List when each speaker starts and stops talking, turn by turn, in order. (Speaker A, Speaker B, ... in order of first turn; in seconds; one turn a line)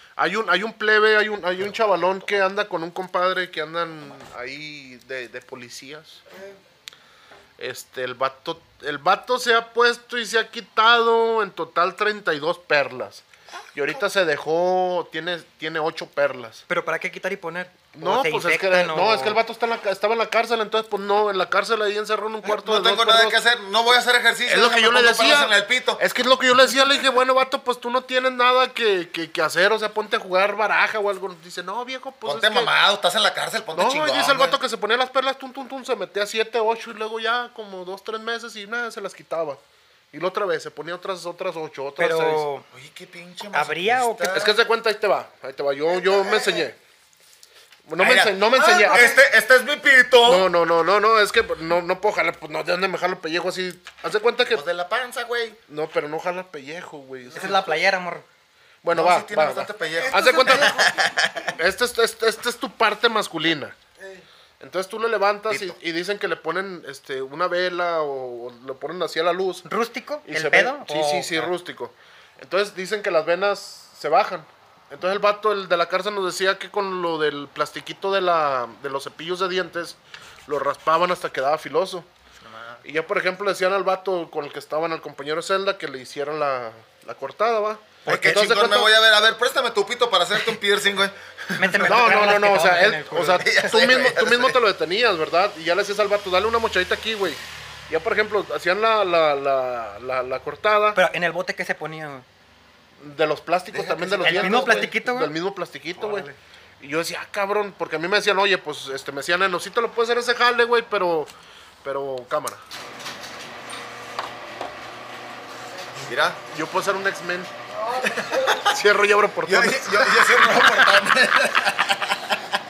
Speaker A: 0.2-6.2
Speaker A: 7.6-13.2
Speaker A: 13.7-16.6
Speaker B: 16.7-19.4
Speaker A: 17.9-23.4
Speaker C: 22.4-26.0
Speaker A: 24.5-32.7
Speaker C: 32.2-34.6
Speaker A: 33.7-39.6
Speaker A: 40.1-42.5
Speaker B: 42.0-42.6
Speaker C: 42.7-44.5
Speaker B: 43.5-44.5
Speaker A: 44.3-46.8
Speaker D: 45.9-46.7
Speaker A: 47.9-49.1
Speaker C: 48.0-50.5
Speaker D: 48.5-49.2
Speaker A: 50.2-54.6
Speaker C: 54.5-55.6
Speaker A: 55.7-57.8
Speaker B: 57.3-58.2
Speaker A: 58.8-60.8
Speaker C: 58.9-61.5
Speaker D: 60.0-61.1
Speaker A: 61.5-63.8
Speaker D: 64.0-64.2
Speaker A: 64.6-69.6
Speaker C: 65.5-65.8
Speaker B: 69.6-71.5
Speaker A: 70.3-82.1
Speaker C: 82.4-82.8
Speaker A: 82.8-88.9
Speaker C: 88.0-92.4
Speaker B: 91.6-93.7
Speaker A: 91.8-101.0
Speaker C: 93.2-94.6
Speaker B: 100.9-102.2
Speaker A: 103.0-106.3
Speaker C: 103.7-104.9
Speaker B: 104.2-105.3
Speaker B: 106.0-106.3
Speaker A: 106.8-111.3
Speaker A: 111.8-112.6
Speaker C: 116.1-116.4
Speaker A: 116.5-117.5
Speaker D: 117.7-118.7
Speaker C: 118.0-118.6
Speaker A: 118.6-120.3
Speaker C: 119.4-122.3